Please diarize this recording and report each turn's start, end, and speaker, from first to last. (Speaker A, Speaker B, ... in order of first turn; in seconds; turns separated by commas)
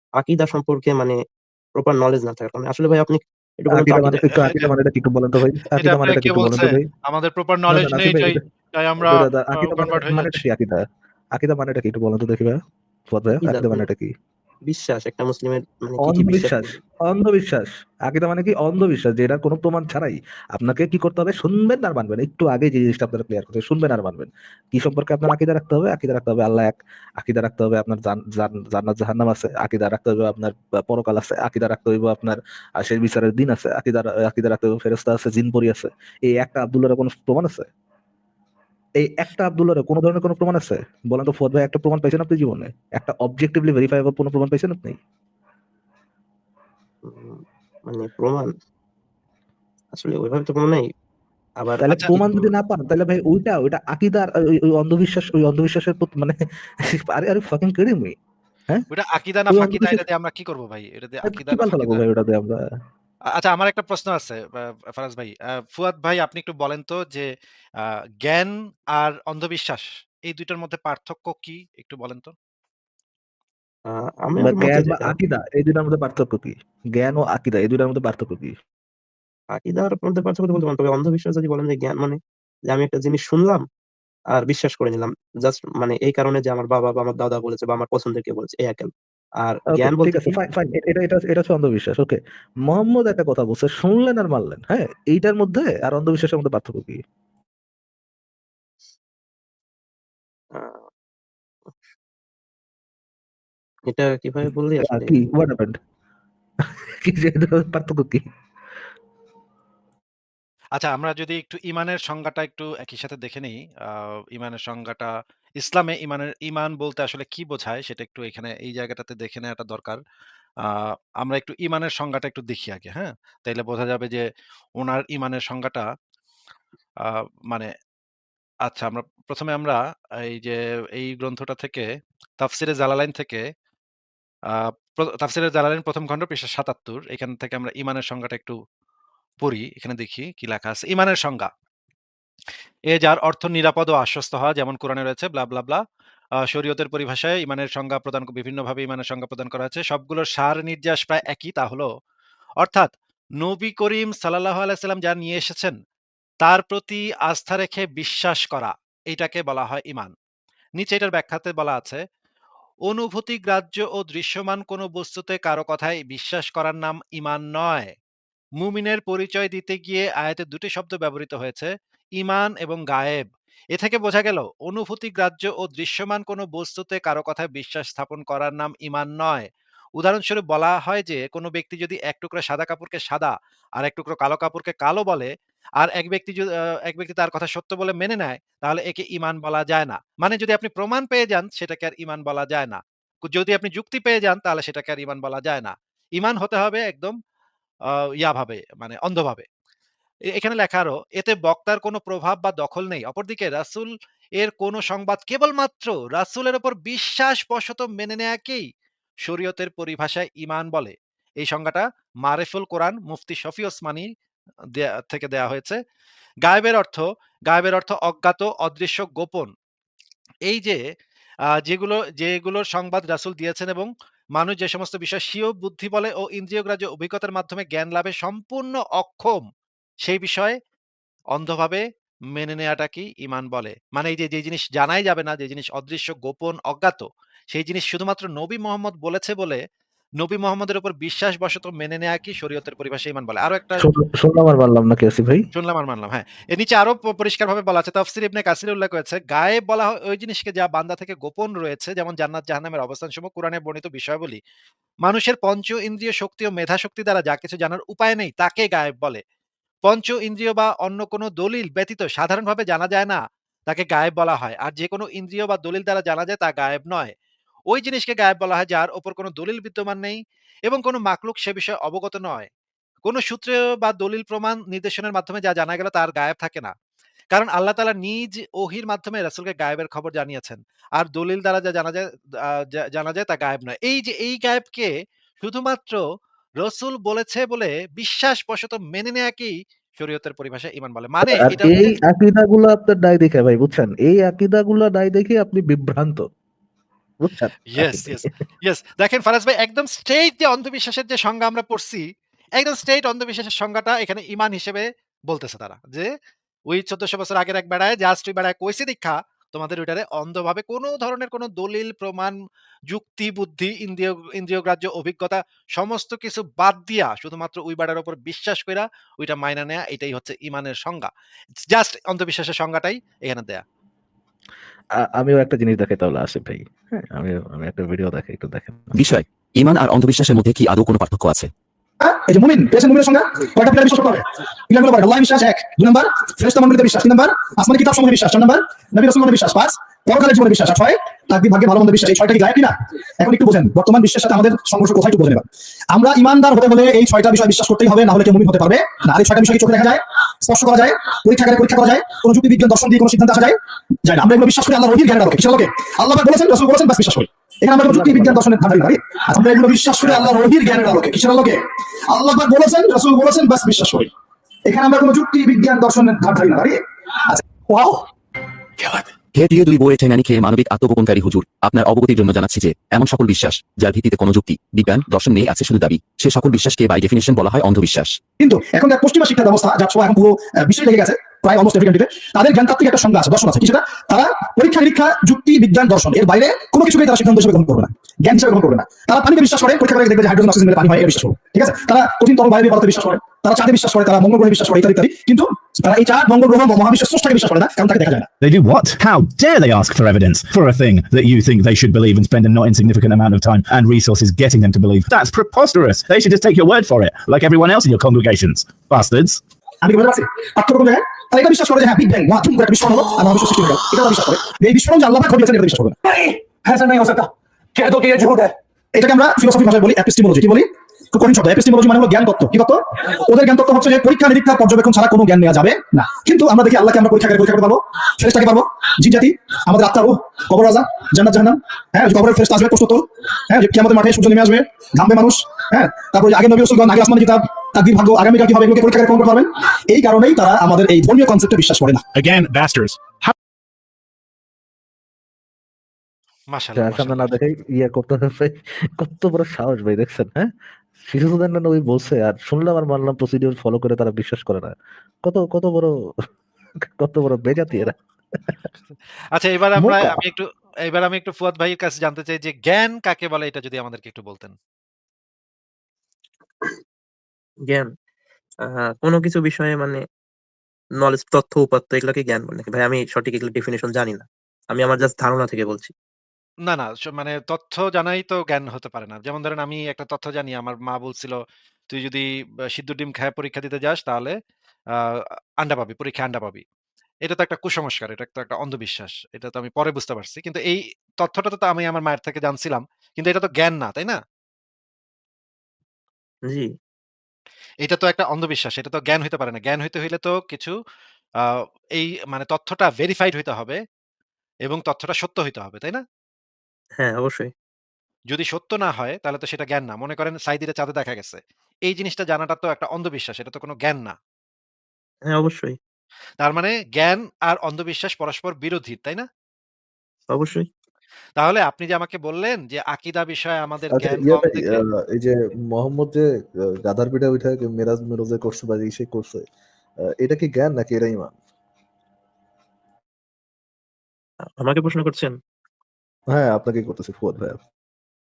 Speaker A: 0.2-1.1, Speaker A: 1.8-4.3, Speaker B: 3.7-6.8, Speaker C: 4.3-4.7, Speaker C: 5.8-10.4, Speaker B: 7.7-8.4, Speaker B: 9.0-10.8, Speaker B: 11.3-12.6, Speaker B: 13.1-14.1, Speaker A: 13.4-13.8, Speaker A: 14.7-16.7, Speaker B: 16.0-37.7, Speaker B: 39.0-45.0, Speaker A: 47.0-48.5, Speaker A: 49.9-50.9, Speaker A: 51.6-52.4, Speaker B: 51.8-56.4, Speaker B: 56.9-58.1, Speaker C: 58.9-62.0, Speaker B: 59.5-60.0, Speaker B: 61.2-62.6, Speaker C: 63.4-67.3, Speaker C: 67.8-72.3, Speaker A: 73.9-75.1, Speaker B: 74.4-78.5, Speaker A: 79.5-82.2, Speaker A: 82.7-83.6, Speaker A: 84.3-88.9, Speaker A: 89.4-90.3, Speaker B: 89.7-97.0, Speaker A: 100.5-100.8, Speaker A: 103.9-105.1, Speaker B: 104.8-105.7, Speaker B: 107.0-108.2, Speaker C: 110.8-120.0, Speaker C: 120.6-124.2, Speaker C: 124.8-125.8, Speaker C: 127.0-127.7, Speaker C: 128.7-131.8, Speaker C: 132.4-133.4, Speaker C: 134.5-138.6, Speaker C: 139.4-141.5, Speaker C: 142.9-145.8, Speaker C: 146.5-151.9, Speaker C: 152.6-155.8, Speaker C: 156.4-160.1, Speaker C: 160.8-162.0, Speaker C: 162.9-167.9, Speaker C: 168.6-179.5, Speaker C: 180.0-197.1, Speaker C: 197.9-199.4, Speaker C: 200.3-208.6, Speaker C: 209.2-214.1, Speaker C: 214.8-215.8, Speaker C: 216.4-219.5, Speaker C: 220.5-220.8, Speaker C: 221.7-229.4, Speaker C: 230.0-230.5, Speaker C: 231.3-231.8, Speaker C: 232.3-239.6, Speaker C: 240.2-243.9, Speaker B: 243.8-245.4, Speaker C: 245.5-254.4, Speaker C: 255.0-259.2, Speaker C: 259.9-267.1, Speaker C: 267.7-272.5, Speaker C: 273.0-276.7, Speaker C: 277.3-286.0, Speaker C: 286.6-291.9, Speaker B: 291.3-296.2, Speaker B: 297.2-298.2, Speaker C: 297.8-302.0, Speaker C: 302.6-306.1, Speaker C: 306.7-312.3, Speaker C: 312.9-321.1, Speaker C: 321.7-323.6, Speaker B: 325.2-329.0, Speaker D: 328.9-331.5, Speaker E: 332.0-364.1, Speaker B: 357.9-358.4, Speaker E: 364.6-368.0, Speaker D: 369.3-378.2, Speaker E: 378.4-398.3, Speaker F: 398.4-409.4, Speaker E: 409.8-415.9, Speaker E: 416.6-442.1, Speaker C: 446.5-447.3, Speaker B: 446.8-450.5, Speaker B: 451.1-455.9, Speaker B: 457.0-458.6, Speaker C: 459.3-464.5, Speaker B: 459.7-460.2, Speaker A: 468.6-470.0, Speaker A: 471.0-475.9, Speaker C: 476.7-481.4, Speaker C: 481.9-484.3, Speaker C: 484.9-486.6, Speaker C: 487.2-494.2, Speaker C: 497.8-500.7, Speaker C: 501.4-503.8, Speaker C: 504.6-506.0, Speaker A: 507.0-507.5, Speaker C: 508.3-514.1, Speaker A: 515.3-515.8, Speaker C: 516.4-519.2, Speaker A: 520.3-520.7, Speaker C: 521.4-524.8, Speaker B: 523.9-526.2, Speaker B: 526.8-529.4, Speaker B: 530.2-531.3, Speaker A: 534.6-535.3, Speaker B: 536.3-537.6